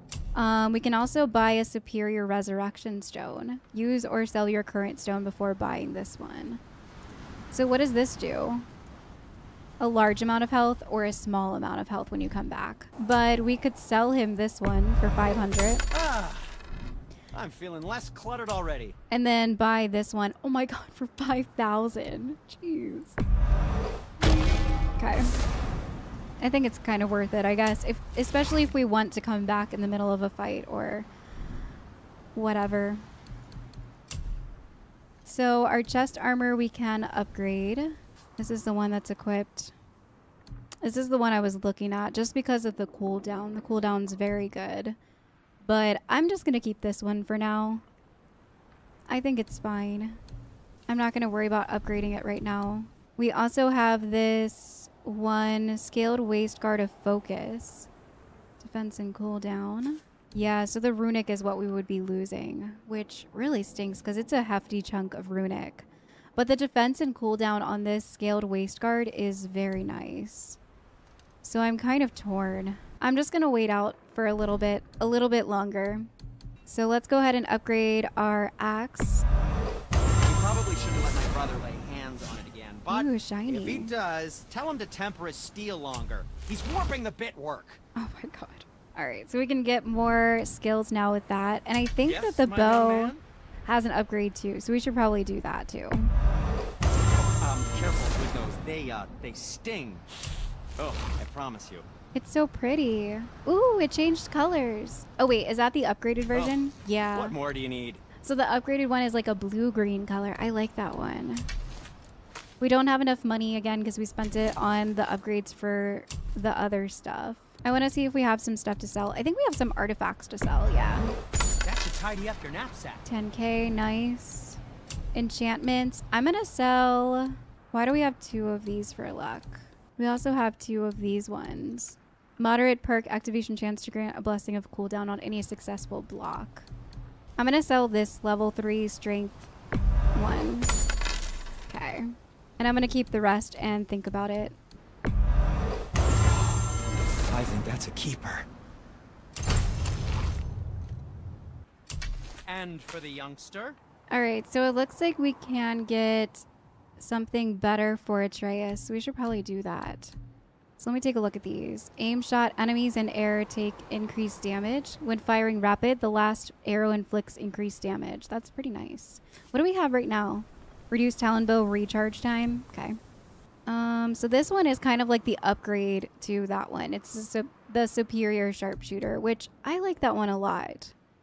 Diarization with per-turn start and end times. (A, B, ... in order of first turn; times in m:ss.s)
0:00.3-0:06.6 A
0:07.5-0:08.6 A
0:09.8-0:15.8 A
0:15.9-0:16.5 B
0:17.3-0:19.0 B
0:19.1-0:23.2 A
0:25.0-0:25.3 A
0:26.4-0:31.1 A
0:32.3-0:33.0 A
0:35.2-0:39.7 A
0:40.8-0:45.0 A
0:45.6-0:47.8 A
0:49.1-0:50.2 A
0:50.9-0:57.9 A
0:58.6-1:10.6 A
1:11.4-1:16.1 A
1:16.7-1:19.2 A
1:20.2-1:27.8 B
1:22.9-1:23.9 A
1:28.0-1:33.1 A
1:32.0-1:33.2 B
1:33.6-1:36.1 A
1:37.4-1:40.1 B
1:40.8-1:41.9 B
1:42.1-1:47.4 A
1:46.3-1:46.6 B
1:47.1-1:48.0 B
1:48.2-1:51.5 A
1:52.6-2:01.1 A
2:01.6-2:03.0 B
2:03.0-2:04.6 A
2:05.1-2:16.7 A
2:17.4-2:19.5 A
2:20.1-2:20.7 A
2:21.7-2:24.6 A
2:27.3-2:28.5 B
2:32.5-2:33.8 B
2:34.1-2:36.4 A
2:37.0-2:40.1 A
2:40.8-2:53.0 A
2:53.7-3:00.9 A